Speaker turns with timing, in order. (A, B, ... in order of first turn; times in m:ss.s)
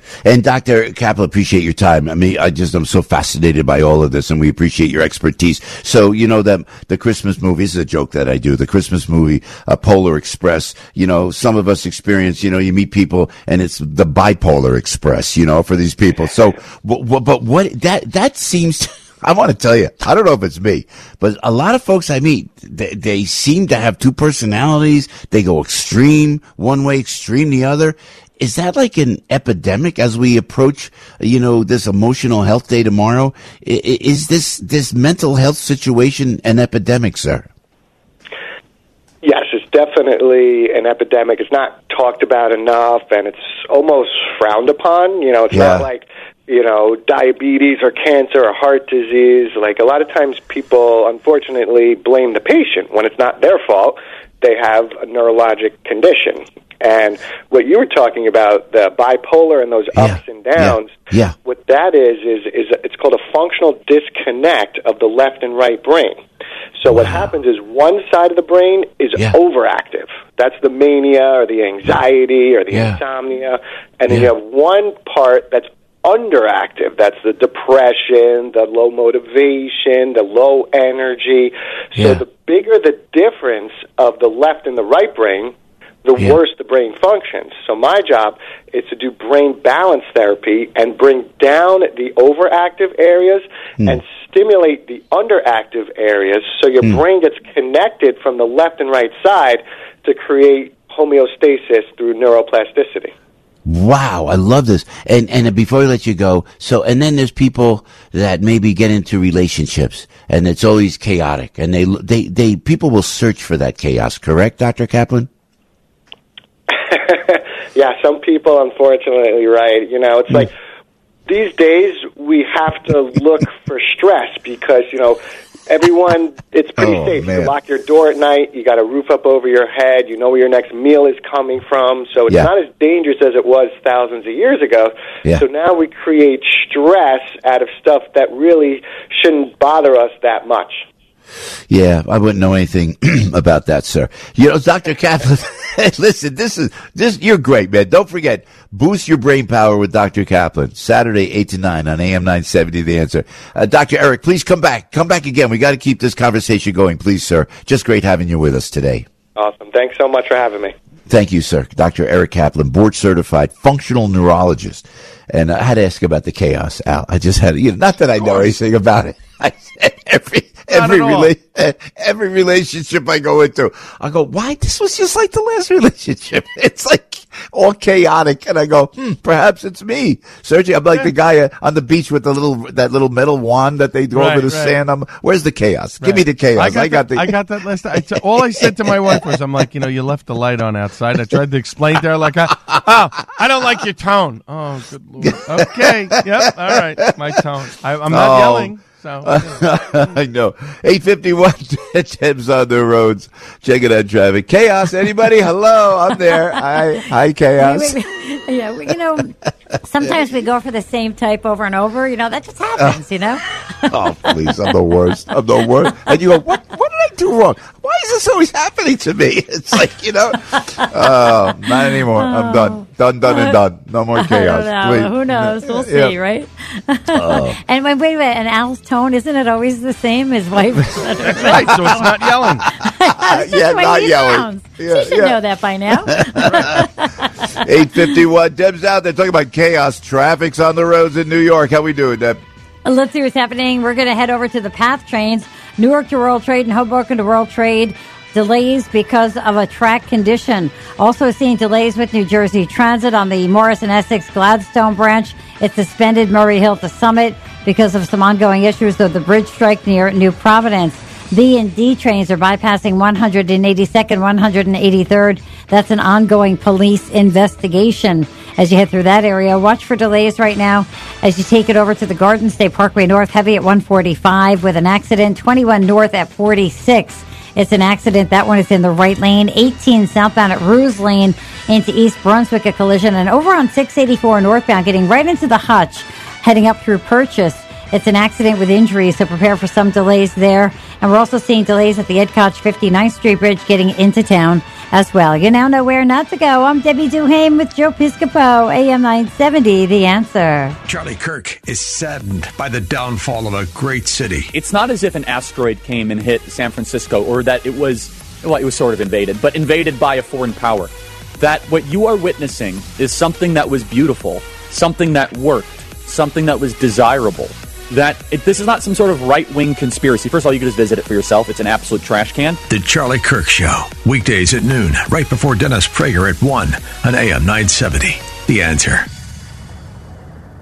0:00.2-0:37.5 A
0:39.2-1:06.2 B
0:45.5-0:45.8 A
1:00.0-1:01.3 A
1:06.8-1:25.5 B
1:06.9-1:07.3 A
1:12.7-1:13.0 A
1:22.0-1:22.2 A
1:26.0-1:43.1 B
1:43.6-1:55.3 A
1:56.7-2:00.5 B
2:01.3-2:20.8 B
2:06.8-2:07.5 A
2:21.7-2:39.0 A
2:39.4-2:40.7 B
2:41.1-3:07.4 A
2:50.7-2:51.3 C
3:04.1-3:04.8 C
3:06.0-3:19.6 C
3:07.9-3:09.4 A
3:15.2-3:17.3 A
3:18.1-3:28.0 A
3:27.6-3:33.4 D
3:33.8-3:46.2 A
3:41.7-3:43.6 D
3:44.2-3:58.1 D
3:47.1-3:47.6 A
3:51.1-3:56.9 A
3:51.2-3:52.7 C
3:57.6-4:02.4 A
4:02.8-5:00.8 D
5:00.8-5:04.5 E
5:04.5-5:22.6 F
5:22.7-5:29.1 E